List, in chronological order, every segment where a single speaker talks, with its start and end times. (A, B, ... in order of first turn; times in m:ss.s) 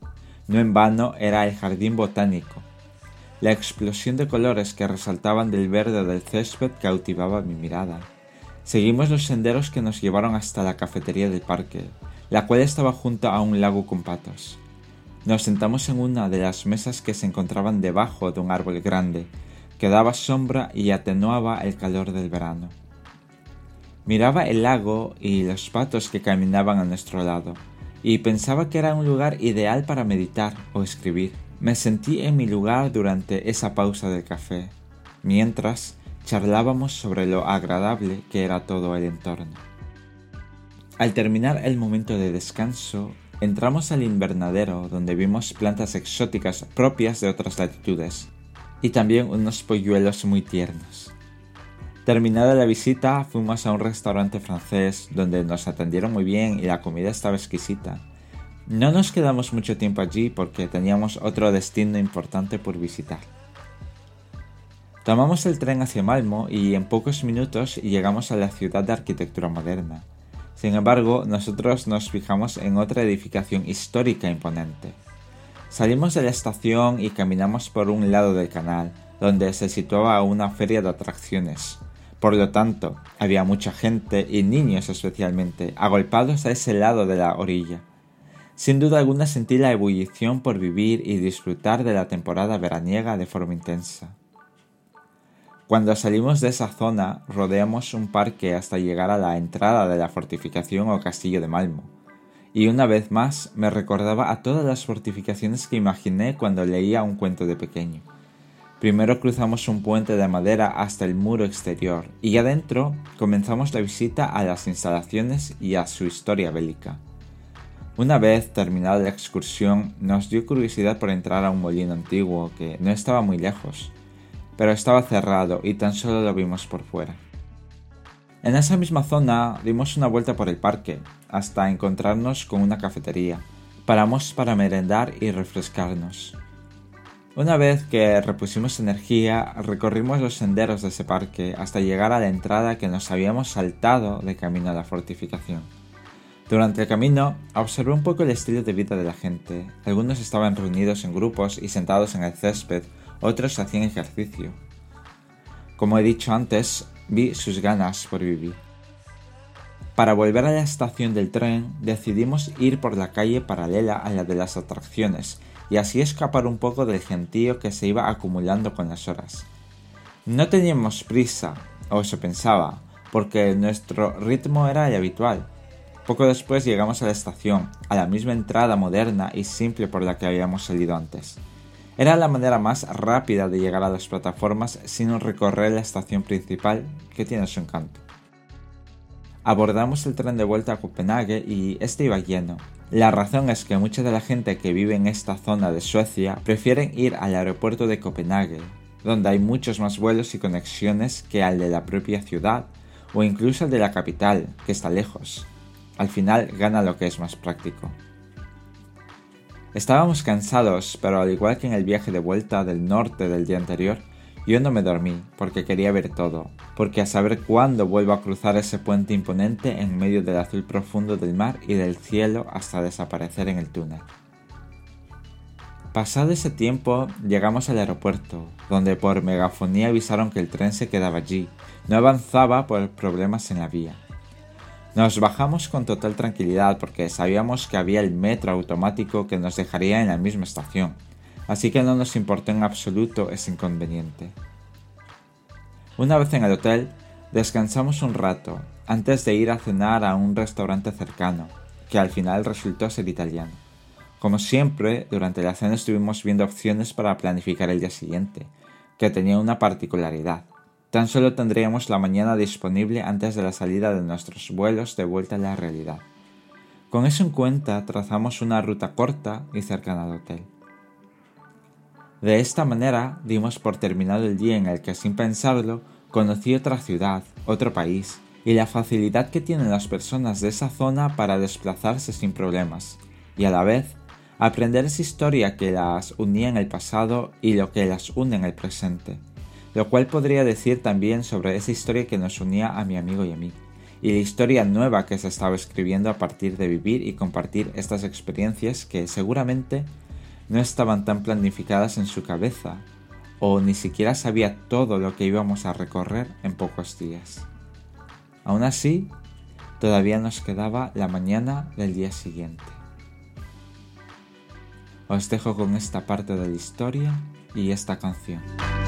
0:00.5-0:02.7 A
0:03.4-0:08.1 A
0:08.6-0:14.6 A
0:15.2-0:22.8 A
0:24.1-0:39.6 A
0:41.0-0:48.3 A
0:48.8-0:51.2 A
0:52.0-0:58.0 A
0:58.7-1:03.3 A
1:05.0-1:15.0 A
1:15.7-1:27.9 A
1:28.6-1:34.2 A
1:35.7-1:41.9 A
1:42.5-1:48.0 A
1:48.8-1:57.0 A
1:58.0-2:04.0 A
2:04.6-2:07.2 A
2:08.4-2:16.4 A
2:17.4-2:25.7 A
2:26.5-2:34.6 A
2:35.8-2:38.6 A
2:40.0-2:49.5 A
2:50.3-2:55.5 A
2:56.1-3:01.4 A
3:02.0-3:08.0 A
3:09.4-3:28.0 A
3:29.7-3:44.1 A
3:45.9-3:54.0 A
3:55.0-4:04.4 A
4:06.0-4:13.6 A
4:14.2-4:26.1 A
4:26.9-4:30.5 A
4:32.2-4:59.9 A
5:00.5-5:02.9 A
5:03.4-5:07.5 A
5:08.4-5:09.1 A
5:09.8-5:12.8 A
5:15.1-5:18.5 A